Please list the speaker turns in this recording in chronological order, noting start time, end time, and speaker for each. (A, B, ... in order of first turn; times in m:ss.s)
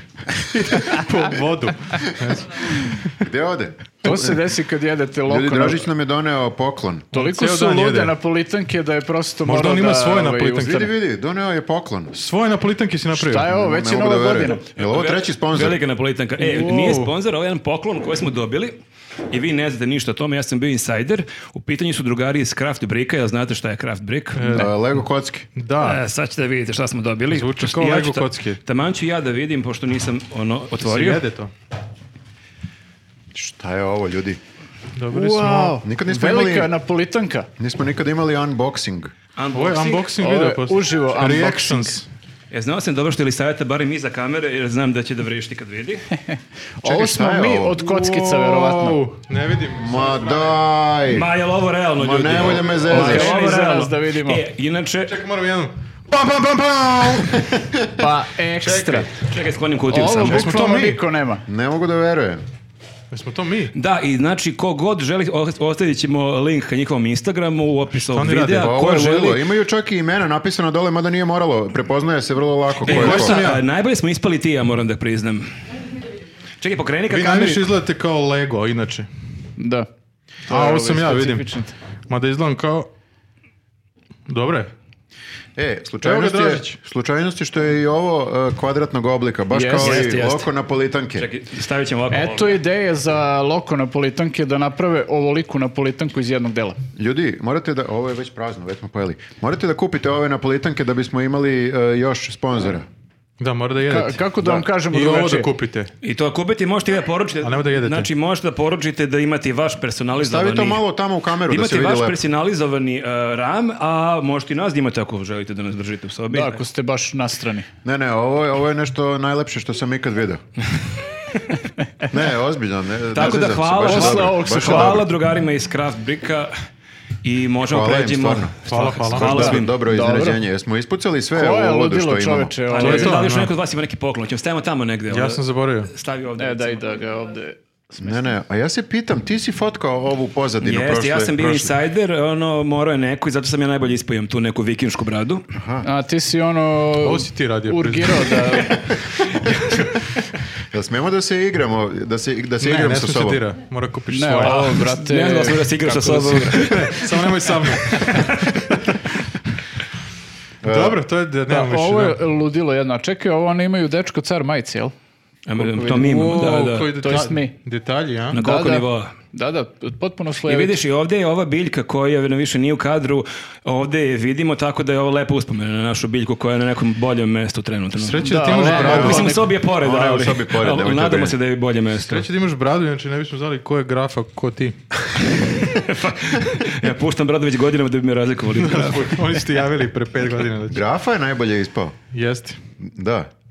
0:00.5-0:03.2 A
0:00.6-0:01.0 B
0:03.2-0:04.2 B
0:04.0-0:05.8 C
0:05.3-0:07.1 B
0:07.1-0:08.1 A
0:07.1-0:10.9 C
0:09.4-0:10.8 A
0:10.7-0:12.2 B
0:12.1-0:13.6 A
0:13.1-0:14.6 C
0:13.5-0:15.8 B
0:14.4-0:18.8 D
0:16.4-0:17.1 A
0:19.3-0:24.6 D
0:24.3-0:24.8 A
0:24.5-0:25.5 B
0:25.6-0:26.0 A
0:25.8-0:31.2 D
0:27.3-0:28.6 A
0:30.8-0:31.5 A
0:33.3-0:34.4 B
0:35.0-0:35.8 A
0:35.1-0:37.5 C
0:35.8-0:36.7 B
0:37.6-0:39.1 B
0:39.4-0:40.1 D
0:39.5-0:42.0 A
0:40.2-0:42.0 C
0:42.5-0:46.0 D
0:46.3-0:49.0 C
0:46.8-0:47.8 B
0:47.8-0:50.6 A
0:49.7-0:51.3 B
0:51.1-0:55.1 D
0:52.0-0:53.4 B
0:52.8-0:54.4 C
0:55.0-0:57.5 A
0:57.2-0:57.8 B
0:58.0-0:59.1 C
0:58.6-0:59.1 B
0:58.7-1:00.7 D
0:59.9-1:01.4 C
1:00.2-1:01.0 A
1:01.5-1:02.4 B
1:03.1-1:03.7 A
1:03.7-1:09.4 D
1:08.1-1:08.7 A
1:08.5-1:13.4 B
1:12.8-1:13.6 A
1:12.8-1:15.5 D
1:16.6-1:17.7 D
1:17.1-1:19.1 A
1:19.6-1:19.9 C
1:20.4-1:21.7 C
1:20.5-1:21.4 A
1:22.1-1:22.9 A
1:24.3-1:24.7 A
1:25.6-1:31.3 B
1:26.0-1:26.8 A
1:29.5-1:30.1 C
1:29.8-1:30.5 D
1:31.2-1:32.6 D
1:32.1-1:36.8 C
1:37.0-1:42.9 B
1:43.4-1:45.9 A
1:43.8-1:45.5 C
1:46.0-1:50.8 D
1:47.4-1:48.1 A
1:50.2-1:52.2 B
1:51.5-1:56.6 D
1:56.3-1:57.7 C
1:57.8-2:00.4 B
2:02.1-2:05.1 B
2:03.1-2:06.5 D
2:03.8-2:05.0 C
2:07.2-2:09.7 D
2:07.6-2:08.6 B
2:08.7-2:09.5 A
2:09.1-2:12.5 B
2:09.2-2:10.4 C
2:11.3-2:13.2 C
2:12.7-2:16.8 D
2:12.8-2:13.5 A
2:15.1-2:15.9 A
2:16.4-2:18.2 C
2:18.0-2:21.7 B
2:20.6-2:25.4 D
2:25.6-2:25.9 B
2:25.8-2:28.9 C
2:27.0-2:28.5 A
2:29.4-2:29.8 B
2:30.6-2:33.4 B
2:32.6-2:34.7 A
2:34.1-2:36.7 C
2:34.4-2:37.2 D
2:36.6-2:39.0 A
2:37.8-2:38.1 D
2:40.6-2:41.0 B
2:40.6-2:42.2 A
2:41.5-2:44.9 C
2:45.4-2:46.9 D
2:45.6-2:48.4 A
2:46.9-2:47.6 C
2:48.3-2:50.8 C
2:48.3-2:49.1 D
2:50.4-3:02.2 D
2:58.0-2:59.4 A
2:58.2-2:59.5 C
2:58.6-3:01.4 B
3:02.0-3:04.8 A
3:05.2-3:09.4 D
3:08.6-3:10.8 A
3:10.7-3:12.0 B
3:12.1-3:12.6 A
3:12.8-3:13.3 B